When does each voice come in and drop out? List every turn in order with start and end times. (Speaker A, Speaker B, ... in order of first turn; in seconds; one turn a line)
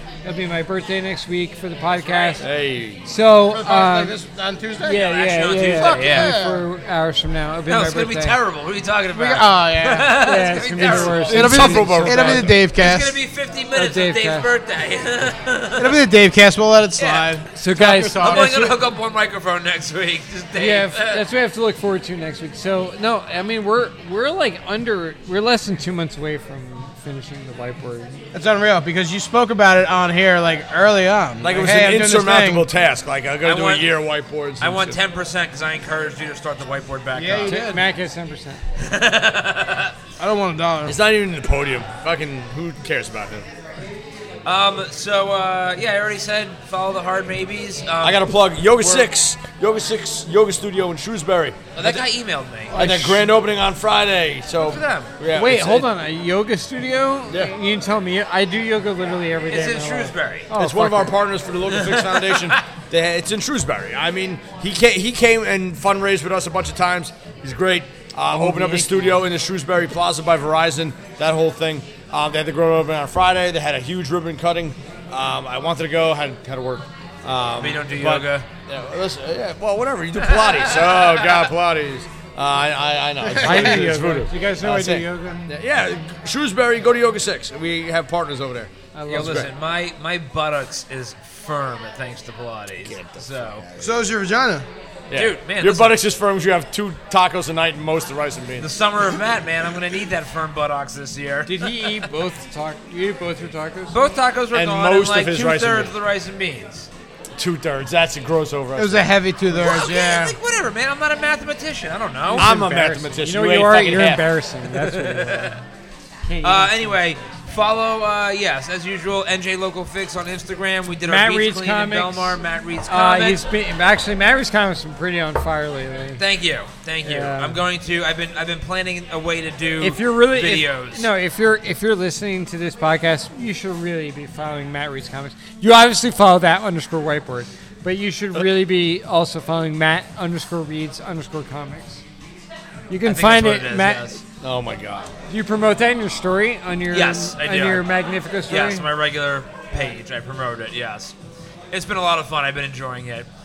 Speaker A: 0.2-2.5
Speaker B: 1.9-2.5
Speaker C: 2.4-3.0
Speaker A: 3.0-4.2
Speaker D: 3.4-5.0
Speaker A: 4.8-8.4
Speaker B: 5.0-6.4
Speaker D: 5.7-6.6
Speaker B: 7.7-11.8
Speaker D: 9.1-10.2
Speaker A: 10.2-12.5
Speaker C: 10.9-12.6
Speaker D: 11.2-13.1
Speaker B: 12.7-16.0
Speaker A: 13.7-14.5
Speaker D: 15.8-18.8
Speaker B: 17.0-17.3
Speaker A: 17.5-18.6
Speaker B: 18.2-21.2
Speaker A: 20.6-28.2
Speaker D: 28.3-32.7
Speaker C: 31.4-35.0
Speaker B: 33.4-33.9
Speaker B: 34.6-37.6
Speaker D: 37.1-37.8
Speaker A: 37.5-38.6
Speaker B: 38.8-39.9
Speaker D: 40.2-41.0
Speaker C: 40.8-43.5
Speaker B: 44.4-48.3
Speaker C: 48.0-52.1
Speaker B: 51.8-53.1
Speaker C: 52.7-55.9
Speaker A: 52.7-53.0
Speaker B: 54.6-55.1
Speaker A: 55.3-61.2
Speaker B: 59.5-60.5
Speaker C: 60.6-89.5
Speaker B: 61.7-62.6
Speaker A: 68.3-69.2
Speaker B: 77.6-78.5
Speaker B: 80.3-81.3
Speaker D: 83.2-83.9
Speaker A: 83.3-85.5
Speaker A: 89.0-89.5
Speaker B: 89.1-93.6
Speaker C: 92.8-94.0
Speaker D: 93.8-94.7
Speaker C: 95.1-98.7
Speaker B: 95.1-96.0
Speaker B: 98.6-101.9
Speaker A: 101.5-104.0
Speaker B: 103.9-106.9
Speaker C: 104.5-106.0
Speaker C: 107.4-109.2
Speaker D: 108.8-110.3
Speaker B: 109.5-112.5
Speaker A: 112.3-115.5
Speaker C: 112.3-114.3
Speaker B: 114.7-115.6
Speaker A: 116.3-117.0
Speaker B: 116.4-123.5
Speaker A: 121.0-126.2
Speaker B: 126.2-131.1
Speaker A: 127.0-127.6
Speaker A: 129.8-142.0
Speaker A: 142.9-144.2
Speaker B: 143.0-144.2
Speaker C: 144.4-145.1
Speaker A: 145.3-148.9
Speaker B: 146.9-147.9
Speaker B: 148.5-151.1
Speaker B: 151.7-153.3